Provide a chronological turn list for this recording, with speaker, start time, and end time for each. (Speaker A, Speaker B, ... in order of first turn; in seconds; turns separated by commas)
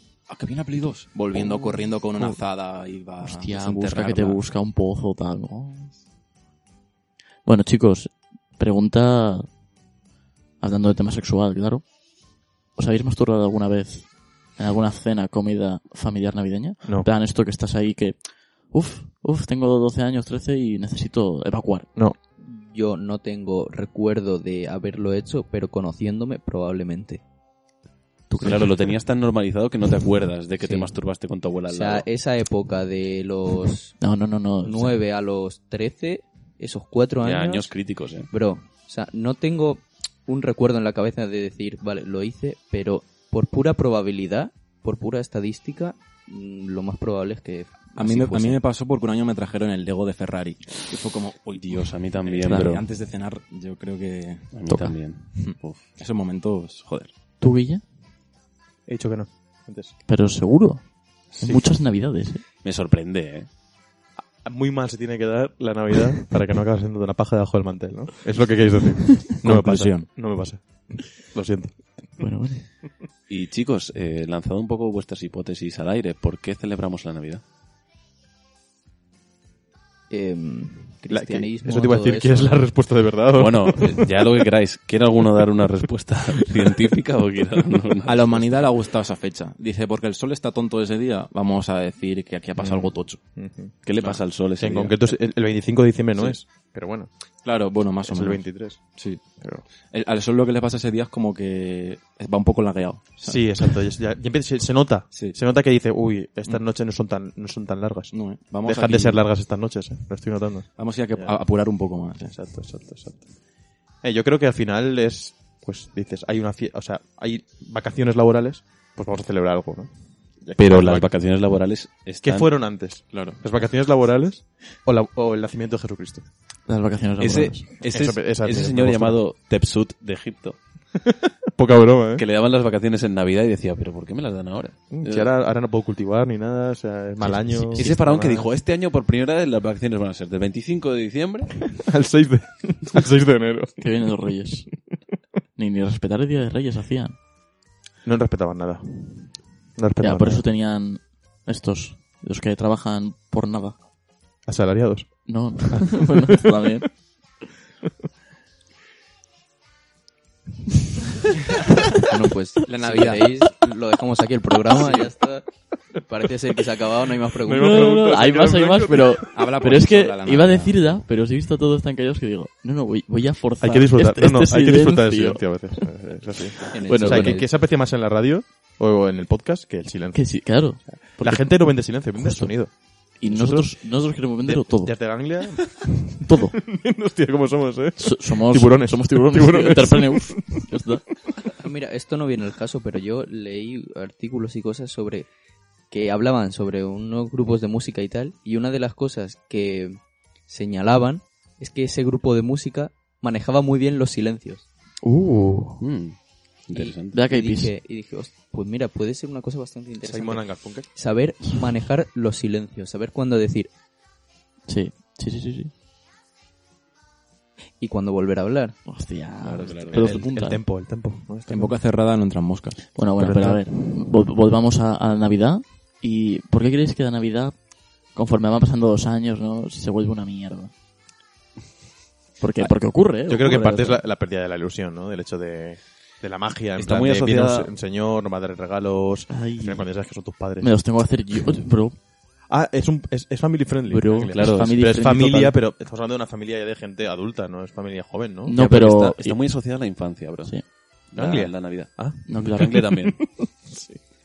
Speaker A: 0.3-4.4, Speaker B: 1.3-2.4, Speaker B: 3.2-6.0, Speaker B: 7.4-9.5, Speaker B: 10.6-11.9, Speaker B: 12.7-21.9, Speaker C: 22.4-27.2, Speaker B: 28.3-28.7, Speaker D: 28.4-32.1, Speaker C: 31.7-34.0, Speaker B: 34.0-35.0, Speaker C: 34.6-37.7, Speaker D: 37.2-38.3, Speaker C: 38.3-48.6, Speaker A: 47.9-54.7, Speaker D: 51.5-52.8, Speaker B: 52.5-52.8, Speaker D: 54.5-55.9, Speaker B: 54.7-55.0, Speaker A: 55.3-57.1, Speaker B: 57.4-57.8, Speaker E: 58.9-59.9, Speaker B: 60.1-62.4, Speaker E: 61.4-61.7, Speaker D: 62.6-63.5, Speaker E: 64.4-72.2, Speaker A: 69.3-70.1, Speaker B: 72.2-72.7, Speaker D: 73.3-77.4, Speaker C: 80.1-82.7, Speaker E: 81.1-84.1, Speaker D: 83.3-88.7, Speaker A: 88.0-93.2, Speaker E: 92.6-93.8, Speaker D: 93.8-94.9, Speaker E: 94.5-97.1, Speaker A: 97.4-99.2, Speaker E: 98.1-98.8, Speaker E: 99.4-99.6, Speaker A: 99.8-103.8, Speaker E: 103.2-111.3, Speaker A: 105.1-105.4, Speaker A: 108.1-109.2, Speaker A: 110.8-112.4, Speaker E: 112.3-113.3, Speaker E: 114.0-121.1, Speaker D: 120.6-122.5, Speaker E: 122.2-126.3, Speaker A: 123.1-123.4, Speaker B: 126.7-127.6, Speaker D: 127.2-130.6, Speaker E: 127.9-129.2, Speaker E: 131.6-132.2, Speaker D: 132.2-135.3, Speaker E: 134.9-138.5, Speaker B: 137.2-137.9, Speaker D: 137.7-141.7, Speaker E: 141.8-143.8, Speaker B: 143.8-144.7, Speaker B: 145.6-147.2, Speaker E: 148.0-150.4, Speaker B: 150.0-153.8, Speaker E: 154.4-156.5, Speaker B: 155.3-156.9, Speaker C: 162.1-165.5, Speaker A: 162.7-163.4, Speaker C: 166.0-167.8, Speaker E: 167.4-169.4, Speaker B: 167.5-175.9, Speaker A: 169.3-171.0, Speaker E: 173.6-190.7, Speaker C: 176.7-177.5, Speaker B: 176.8-177.4, Speaker B: 180.1-185.0, Speaker B: 186.2-186.6, Speaker B: 188.0-191.1, Speaker C: 191.6-195.3, Speaker C: 195.9-204.7, Speaker B: 205.0-205.8, Speaker D: 205.8-207.2, Speaker C: 206.7-213.7, Speaker B: 207.1-207.7, Speaker E: 210.0-210.9, Speaker B: 214.7-215.7, Speaker C: 217.8-218.8, Speaker B: 218.8-220.6, Speaker D: 219.4-220.2, Speaker E: 219.9-221.7, Speaker A: 221.5-223.0, Speaker B: 222.9-227.6, Speaker E: 223.2-223.6, Speaker B: 228.1-230.7, Speaker B: 232.4-234.0, Speaker E: 233.2-240.7, Speaker D: 236.8-237.7, Speaker B: 239.3-239.9, Speaker B: 240.6-242.0, Speaker E: 242.5-248.6, Speaker B: 243.9-245.6, Speaker D: 244.3-244.8, Speaker B: 248.4-249.4, Speaker D: 248.5-253.3, Speaker E: 251.1-252.2, Speaker B: 252.2-253.0, Speaker E: 253.6-254.0